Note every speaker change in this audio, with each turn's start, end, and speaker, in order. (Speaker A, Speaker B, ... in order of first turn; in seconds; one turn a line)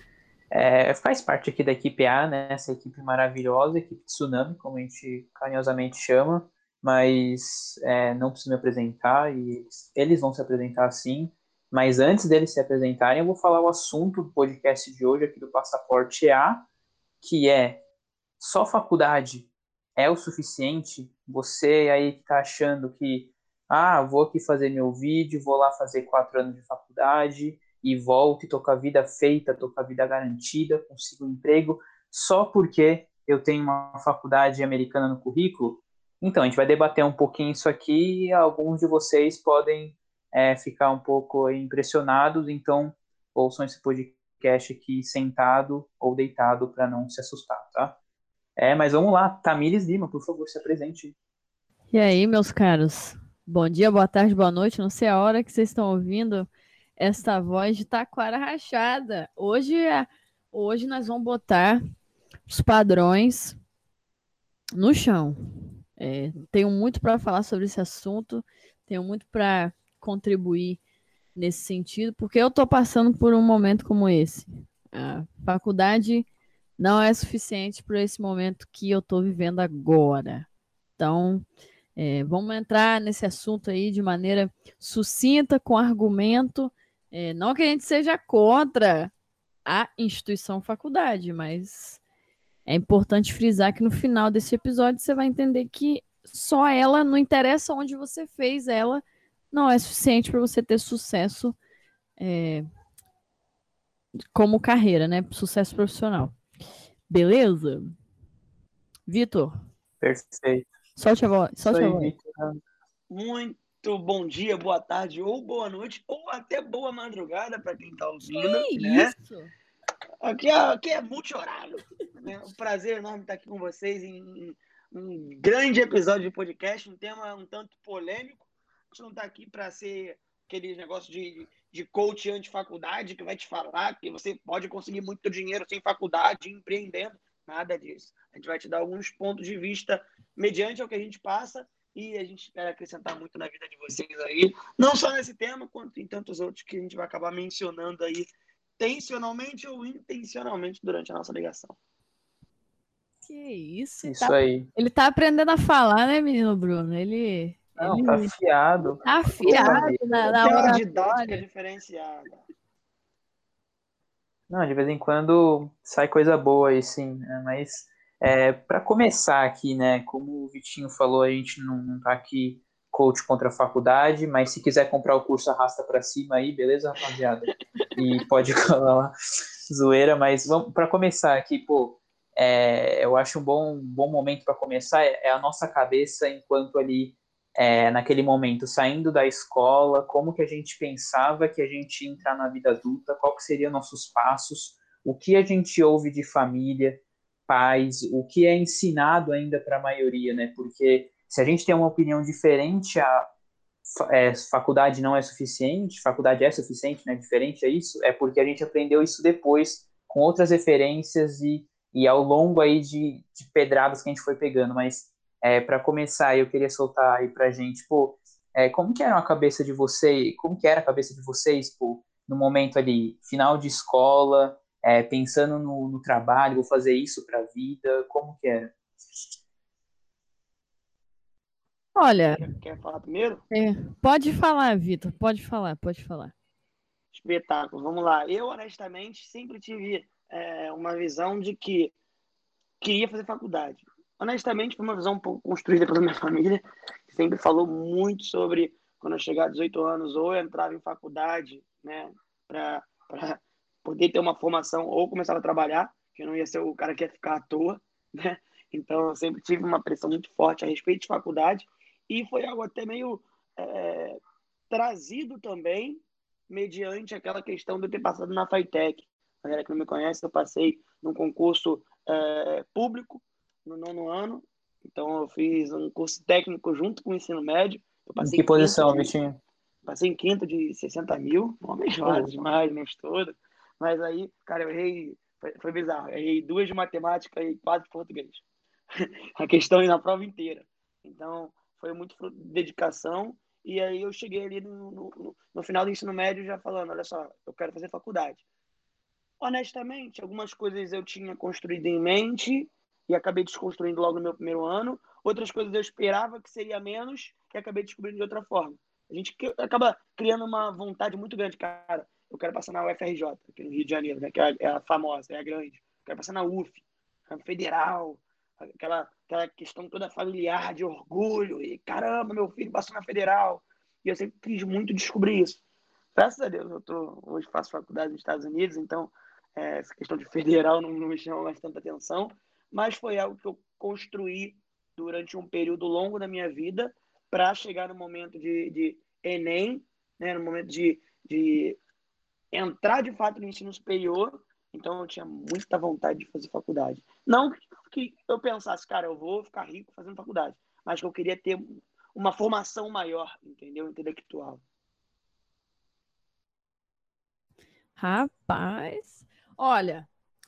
Speaker A: 0.5-16.6
Speaker A: 17.2-17.8
Speaker A: 18.4-48.0
Speaker A: 48.6-51.1
Speaker B: 51.9-61.8
Speaker B: 62.5-63.5
Speaker B: 64.8-65.4
Speaker B: 66.0-70.8
Speaker B: 71.3-76.3
Speaker B: 76.8-80.5
Speaker B: 81.0-81.4
Speaker B: 82.0-89.1
Speaker B: 89.7-92.0
Speaker B: 92.7-101.6
Speaker B: 102.2-102.6
Speaker B: 104.3-106.3
Speaker B: 107.1-107.9
Speaker B: 109.1-109.5
Speaker A: 110.0-110.7
Speaker B: 111.0-112.1
Speaker A: 111.6-112.6
Speaker C: 113.1-119.1
Speaker B: 118.2-119.5
Speaker C: 120.2-151.8
Speaker B: 153.2-158.3
Speaker A: 154.0-154.7
Speaker A: 157.8-160.0
Speaker B: 159.0-161.4
Speaker C: 159.4-162.4
Speaker A: 164.5-179.1
Speaker A: 179.7-203.3
Speaker A: 203.9-228.7
Speaker B: 231.9-232.4
Speaker C: 232.3-233.4
Speaker B: 233.5-236.3
Speaker C: 237.1-241.9
Speaker C: 242.8-264.2
Speaker C: 264.7-279.1
Speaker A: 278.2-279.4
Speaker C: 279.9-288.4
Speaker A: 282.0-282.3
Speaker C: 289.0-298.4
Speaker C: 299.4-325.6
Speaker C: 326.1-341.8
Speaker C: 342.5-354.6
Speaker B: 358.0-360.1